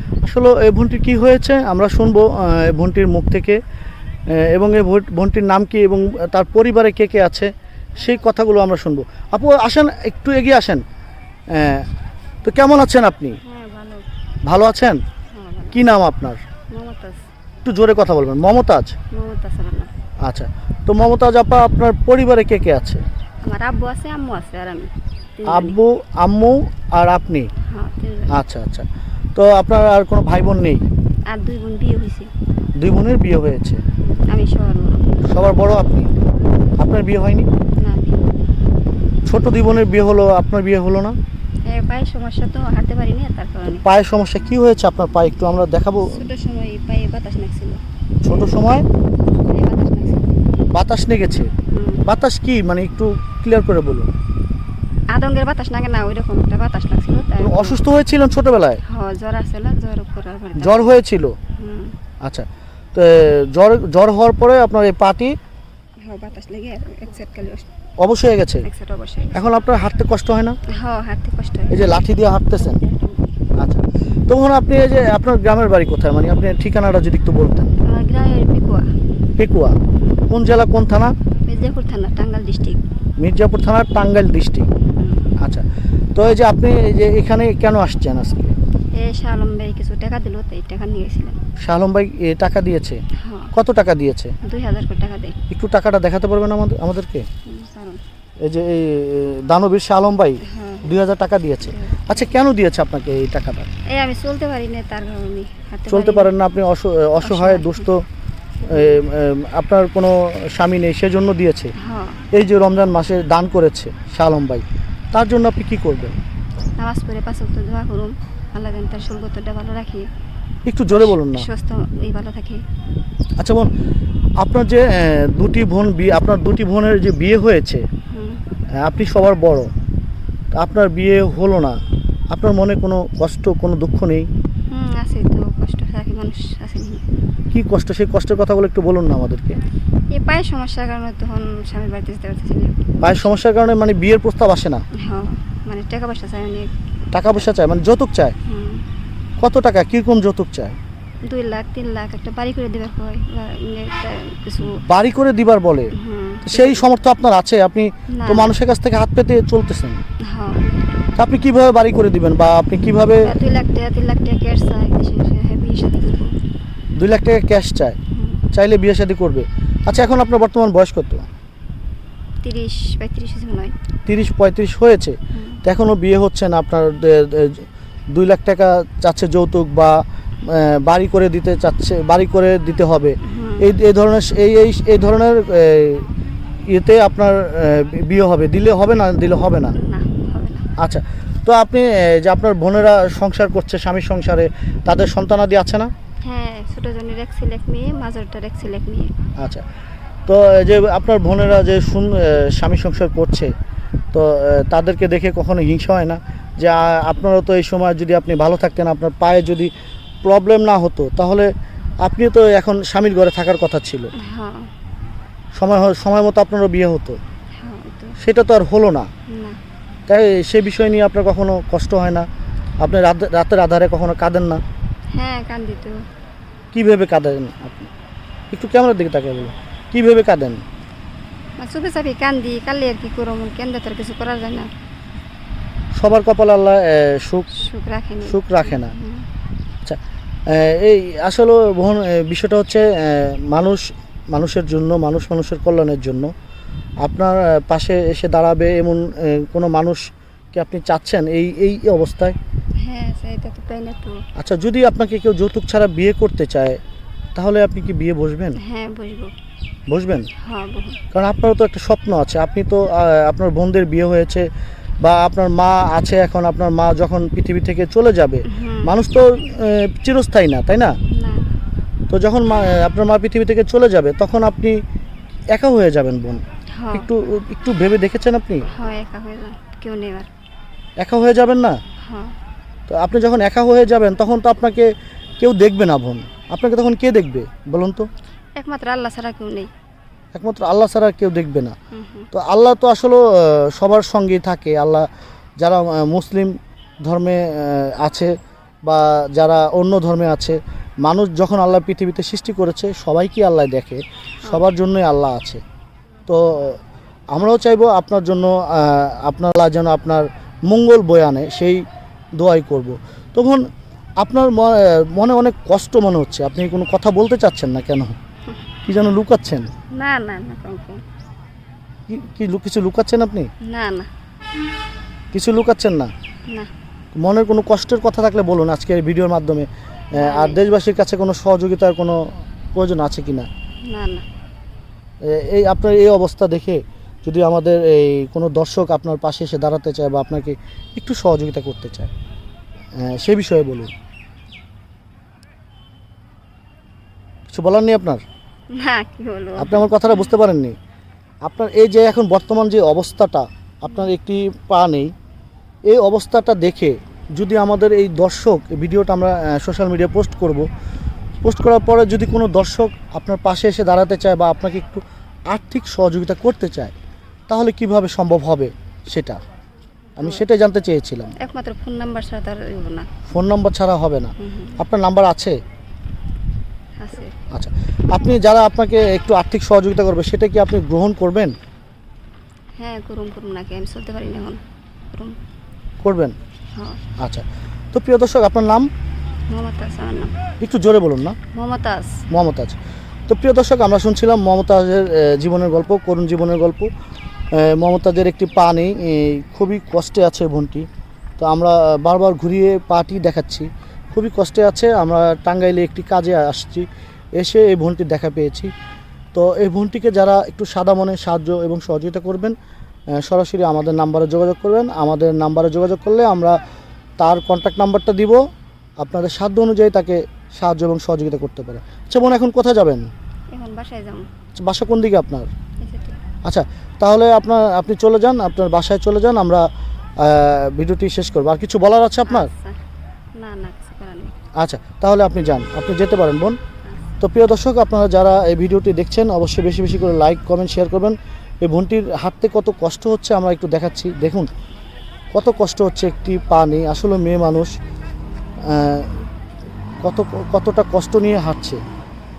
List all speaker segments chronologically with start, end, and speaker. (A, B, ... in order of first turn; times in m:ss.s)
0:00.2-0:03.6 A
0:04.4-0:10.8 A
0:11.5-0:11.9 A
0:12.4-0:13.4 A
0:13.4-0:14.1 B
0:14.4-0:15.0 A
0:15.3-0:15.8 B
0:15.7-0:16.4 A
0:16.7-0:17.2 B
0:17.6-0:19.0 A
0:19.1-0:19.9 B
0:20.2-0:23.0 A
0:23.4-0:25.8 B
0:25.5-0:27.5 A
0:27.7-0:28.3 B
0:28.3-0:30.8 A
0:31.3-0:32.3 B
0:32.8-0:33.8 A
0:34.1-0:35.2 B
0:35.3-0:36.1 A
0:36.8-0:37.5 A
0:37.8-0:38.3 B
0:39.3-0:41.2 A
0:41.7-0:43.8 B
0:43.7-0:46.2 A
0:46.0-0:47.8 B
0:48.2-0:48.9 A
0:49.3-0:50.4 B
0:50.7-0:51.5 A
0:51.7-0:52.0 B
0:52.0-0:54.1 A
0:55.1-0:57.8 B
0:57.4-0:58.8 A
0:58.8-1:01.0 B
1:00.6-1:01.4 A
1:01.6-1:02.0 B
1:02.2-1:05.4 A
1:06.0-1:07.7 B
1:08.0-1:08.7 A
1:08.6-1:09.4 B
1:09.3-1:10.6 A
1:10.7-1:12.0 B
1:11.7-1:12.8 A
1:13.6-1:17.8 A
1:17.8-1:18.9 B
1:19.4-1:19.8 A
1:20.0-1:20.2 B
1:20.3-1:21.2 A
1:21.5-1:22.8 B
1:23.2-1:24.7 A
1:24.9-1:25.3 B
1:25.4-1:28.5 A
1:28.9-1:31.4 B
1:31.6-1:33.0 A
1:33.2-1:33.5 B
1:33.5-1:34.4 A
1:34.4-1:35.4 B
1:35.5-1:37.3 A
1:37.5-1:38.0 B
1:38.4-1:43.7 A
1:40.4-1:41.0 B
1:41.6-1:42.3 B
1:43.9-1:46.3 B
1:45.9-1:48.0 A
1:47.2-1:47.9 B
1:48.6-1:49.0 B
1:48.7-1:51.7 A
1:51.8-1:52.3 B
1:52.3-1:56.2 A
1:56.8-2:00.1 B
2:00.7-2:01.5 A
2:00.9-2:02.6 B
2:03.4-2:03.7 A
2:04.4-2:07.8 A
2:08.1-2:08.4 B
2:08.8-2:09.7 A
2:10.6-2:11.8 A
2:12.3-2:14.3 A
2:14.7-2:17.1 B
2:17.5-2:19.6 A
2:20.1-2:23.3 B
2:23.0-2:24.8 A
2:25.0-2:26.7 B
2:27.1-2:28.4 A
2:28.4-2:28.9 B
2:29.4-2:30.8 A
2:31.2-2:34.8 B
2:34.8-2:35.9 A
2:36.0-2:36.9 B
2:36.4-2:40.0 A
2:38.1-2:38.5 B
2:40.2-2:40.8 B
2:41.2-2:43.3 A
2:43.2-2:46.3 B
2:47.0-2:48.0 A
2:48.1-2:48.4 B
2:48.5-2:51.3 A
2:52.4-2:53.7 B
2:54.1-3:06.1 A
2:55.3-2:55.6 B
3:03.2-3:03.7 B
3:06.7-3:09.8 A
3:09.8-3:10.7 B
3:10.8-3:15.9 A
3:16.2-3:19.1 B
3:19.4-3:19.6 A
3:20.3-3:23.5 A
3:24.1-3:29.7 A
3:30.2-3:31.5 A
3:32.0-3:34.1 A
3:34.2-3:34.7 B
3:35.6-3:37.2 A
3:37.6-3:38.2 B
3:38.2-3:39.1 A
3:39.3-3:39.6 B
3:40.1-3:42.3 A
3:42.8-3:44.6 A
3:45.1-3:46.0 B
3:46.7-3:47.9 A
3:48.5-3:50.6 A
3:51.6-3:54.7 B
3:56.0-3:57.5 A
3:57.5-3:59.3 B
3:58.2-3:58.9 A
3:59.8-4:06.3 A
4:07.0-4:12.4 A
4:12.8-4:14.2 B
4:14.4-4:16.8 A
4:17.4-4:18.6 A
4:18.6-4:19.3 B
4:19.9-4:20.3 A
4:20.4-4:21.0 B
4:21.1-4:24.5 A
4:25.0-4:31.0 A
4:28.5-4:28.9 B
4:31.1-4:31.5 B
4:32.1-4:34.8 A
4:35.5-4:38.7 A
4:36.8-4:37.1 B
4:38.7-4:40.3 B
4:41.0-4:41.8 A
4:42.0-4:42.4 B
4:42.9-4:48.1 A
4:48.6-4:49.7 B
4:50.3-4:51.8 A
4:51.9-4:52.3 B
4:52.3-4:55.1 A
4:55.6-4:58.3 A
4:58.8-5:05.6 A
5:06.3-5:06.8 A
5:07.3-5:11.8 A
5:12.4-5:13.6 A
5:14.2-5:18.2 A
5:18.9-5:19.7 A
5:19.9-5:21.0 B
5:22.1-5:23.5 A
5:23.7-5:24.1 B
5:25.3-5:26.1 A
5:27.2-5:32.2 A
5:30.2-5:30.6 B
5:32.8-5:33.5 A
5:33.9-5:34.2 B
5:35.2-5:42.1 A
5:43.0-5:43.9 A
5:47.5-5:48.2 A
5:48.7-5:50.3 B
5:49.6-5:50.8 A
5:51.4-5:55.1 A
5:55.9-6:00.7 A
6:01.4-6:06.9 A
6:07.5-6:09.4 A
6:10.2-6:11.3 A
6:11.4-6:13.1 B
6:13.3-6:15.6 A
6:14.4-6:14.8 B
6:17.0-6:17.3 B
6:17.5-6:21.6 A
6:22.8-6:25.4 B
6:26.0-6:26.4 A
6:26.7-6:27.0 B
6:27.2-6:28.9 A
6:29.5-6:30.4 B
6:30.6-6:31.4 A
6:31.5-6:32.2 B
6:32.3-6:32.8 A
6:33.3-6:36.9 A
6:37.5-6:40.9 A
6:41.4-6:46.9 A
6:47.4-6:48.7 A
6:49.3-6:52.6 A
6:53.2-6:56.6 A
6:57.2-6:58.4 A
6:59.0-7:03.1 A
7:03.5-7:04.3 B
7:04.6-7:05.5 A
7:05.8-7:06.2 B
7:06.4-7:09.7 A
7:10.2-7:12.5 A
7:12.3-7:12.8 B
7:13.4-7:14.4 B
7:14.6-7:16.6 A
7:16.8-7:17.1 B
7:17.2-7:24.5 A
7:25.3-7:27.7 A
7:28.7-7:29.1 A
7:30.0-7:31.8 A